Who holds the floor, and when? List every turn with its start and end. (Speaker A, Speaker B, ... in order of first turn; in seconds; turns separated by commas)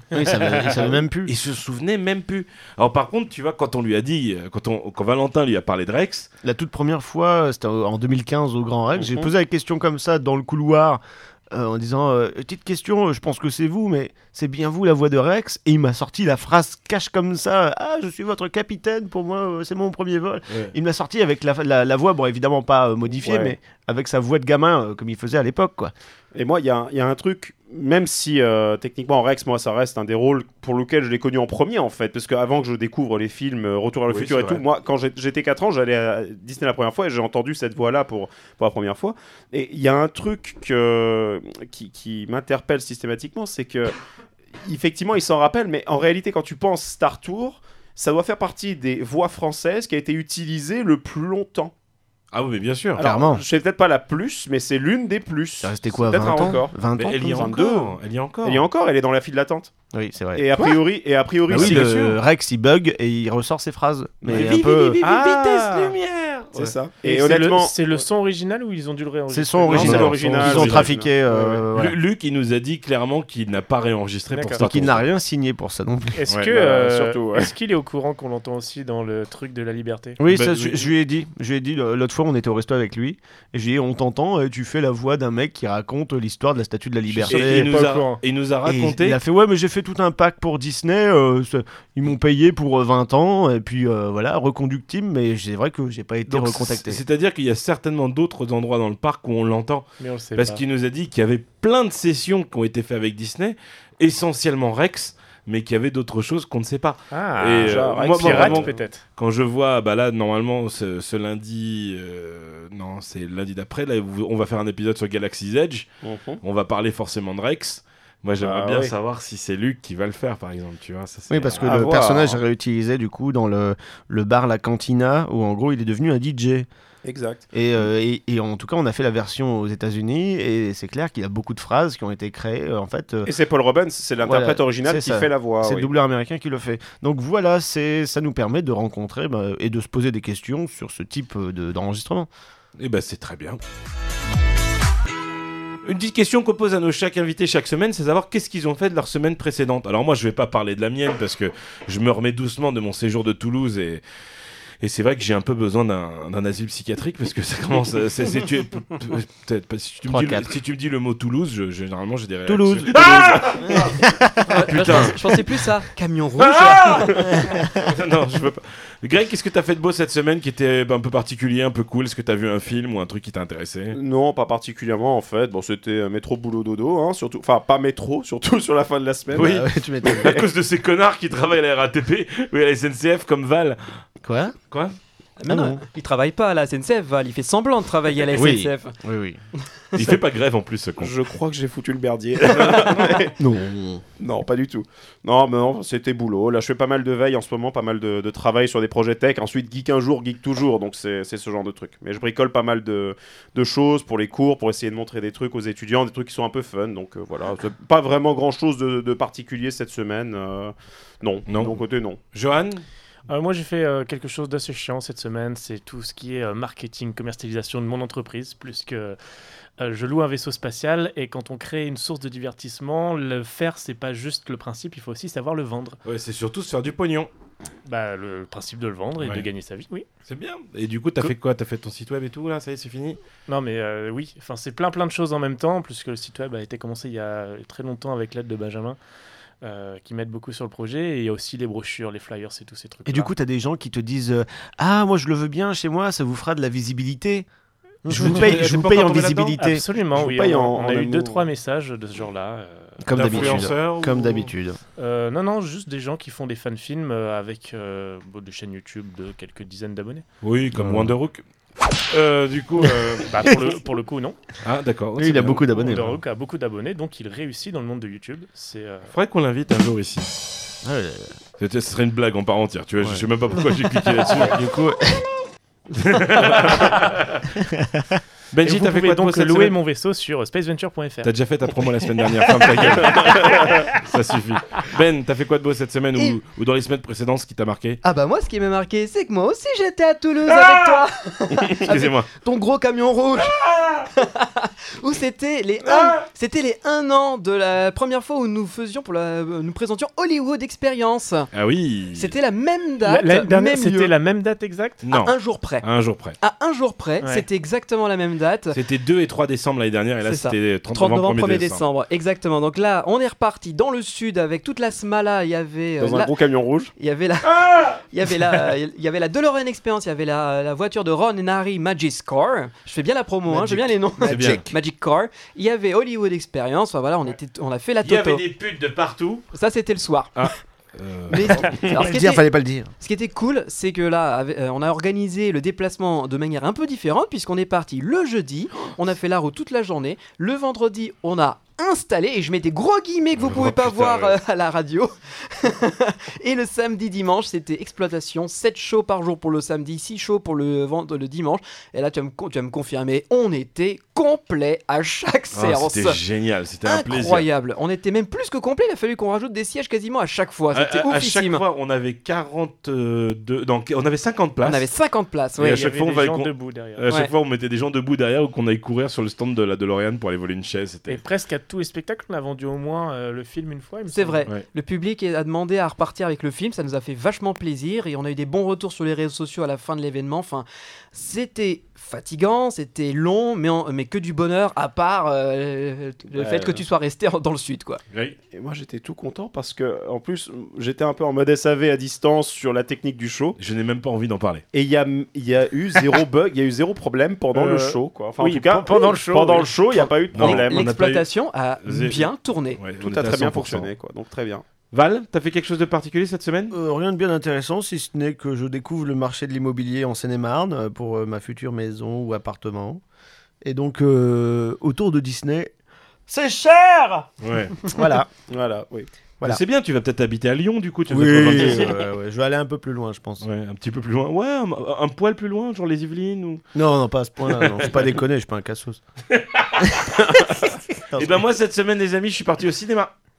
Speaker A: 0.1-1.3, Speaker B: 0.3-0.7, Speaker C: 0.8-6.3, Speaker A: 6.4-11.0, Speaker D: 8.9-9.3, Speaker A: 11.5-25.9, Speaker D: 23.2-23.6, Speaker D: 26.3-44.0, Speaker C: 34.1-34.6, Speaker D: 44.6-51.7, Speaker C: 52.3-53.0, Speaker D: 53.0-59.7, Speaker A: 53.0-53.4, Speaker A: 55.6-57.5, Speaker C: 57.0-58.7, Speaker A: 59.9-60.8, Speaker D: 60.4-61.9, Speaker C: 61.5-62.2, Speaker A: 61.5-65.0, Speaker D: 64.2-65.9, Speaker C: 64.3-66.8, Speaker D: 66.5-67.8, Speaker B: 67.0-70.8, Speaker A: 69.3-72.0, Speaker D: 69.7-71.5, Speaker C: 69.8-70.9, Speaker C: 71.7-75.1, Speaker B: 74.3-74.7, Speaker A: 74.6-76.2, Speaker B: 76.2-80.2, Speaker D: 76.5-77.5, Speaker A: 80.2-87.8, Speaker C: 80.3-80.9, Speaker C: 87.1-89.2, Speaker B: 87.3-88.2, Speaker A: 88.7-97.0, Speaker C: 96.3-115.9, Speaker B: 100.0-100.6, Speaker B: 107.1-109.0, Speaker D: 107.6-108.8, Speaker D: 116.0-116.4, Speaker C: 116.4-121.8, Speaker D: 118.4-119.0, Speaker A: 121.3-126.7, Speaker D: 121.6-122.4, Speaker D: 127.0-127.5, Speaker A: 127.5-133.3, Speaker D: 133.2-135.9, Speaker A: 134.2-142.3, Speaker C: 142.8-143.6, Speaker C: 145.8-154.0, Speaker C: 154.8-165.4, Speaker A: 160.1-160.5, Speaker A: 162.5-165.2, Speaker E: 164.5-167.2, Speaker C: 166.4-174.0, Speaker A: 167.3-167.7, Speaker D: 173.9-179.6, Speaker C: 179.3-183.9, Speaker A: 179.3-180.5, Speaker A: 184.2-184.6, Speaker C: 184.7-185.0, Speaker E: 185.4-189.0, Speaker A: 185.5-185.8, Speaker A: 188.3-189.4, Speaker C: 189.9-191.2, Speaker D: 191.0-193.4, Speaker A: 193.4-194.0, Speaker D: 194.2-212.2, Speaker C: 211.5-211.8, Speaker C: 212.3-212.8, Speaker B: 213.3-219.2, Speaker B: 219.8-226.0, Speaker C: 226.1-227.3, Speaker B: 227.8-230.1, Speaker C: 229.2-229.5, Speaker C: 230.3-233.2, Speaker B: 233.5-239.0, Speaker B: 239.6-243.3, Speaker A: 243.1-247.5, Speaker A: 248.1-249.8, Speaker B: 248.1-248.8, Speaker C: 248.1-249.6, Speaker B: 249.5-253.7, Speaker D: 250.1-251.5, Speaker A: 253.0-254.8, Speaker C: 253.1-254.5, Speaker B: 255.0-260.2, Speaker C: 260.4-261.4, Speaker A: 260.8-261.1, Speaker C: 262.1-263.5, Speaker B: 263.2-264.4, Speaker C: 264.6-265.7, Speaker A: 265.2-266.2, Speaker B: 265.6-269.1, Speaker C: 269.1-270.3, Speaker A: 270.8-271.4, Speaker C: 271.6-274.7, Speaker A: 274.2-275.3, Speaker C: 275.9-277.5, Speaker A: 277.6-278.2, Speaker C: 278.5-279.8, Speaker B: 278.6-281.3, Speaker C: 281.2-288.0, Speaker B: 282.8-283.9, Speaker E: 288.0-301.5, Speaker C: 291.8-292.3, Speaker C: 295.9-296.2, Speaker C: 301.5-302.3, Speaker E: 302.1-304.1, Speaker B: 303.0-305.1, Speaker C: 305.0-306.4, Speaker E: 305.1-305.9, Speaker E: 306.4-308.8, Speaker B: 307.2-307.5, Speaker C: 308.7-311.8, Speaker E: 310.2-316.3, Speaker D: 316.0-316.9, Speaker E: 317.0-328.4, Speaker C: 317.6-318.0, Speaker C: 324.2-324.7, Speaker A: 324.2-324.7, Speaker C: 328.0-329.5, Speaker E: 329.5-330.5, Speaker C: 330.4-331.7, Speaker E: 331.3-332.4, Speaker A: 331.8-332.9, Speaker E: 333.0-356.2, Speaker C: 343.4-344.4, Speaker C: 355.5-357.5, Speaker E: 356.9-361.6, Speaker C: 360.7-364.9, Speaker E: 364.6-365.9, Speaker C: 365.6-371.2, Speaker B: 365.7-367.1, Speaker B: 371.1-374.5, Speaker E: 374.1-388.0, Speaker D: 386.3-386.8, Speaker D: 388.5-393.6, Speaker C: 393.6-394.6, Speaker D: 394.7-400.9, Speaker B: 397.5-400.0, Speaker C: 400.3-401.3, Speaker E: 400.4-402.8, Speaker C: 401.8-403.9, Speaker D: 403.0-404.6, Speaker C: 404.9-406.8, Speaker A: 406.7-413.0, Speaker A: 413.6-415.7, Speaker A: 416.3-417.3, Speaker C: 417.4-417.9, Speaker A: 417.8-418.3, Speaker D: 418.4-419.1, Speaker C: 419.4-422.0, Speaker A: 421.1-423.5, Speaker C: 423.4-426.6, Speaker A: 426.8-429.0, Speaker C: 427.6-428.1, Speaker C: 429.3-430.1, Speaker A: 430.9-431.4, Speaker C: 431.1-433.1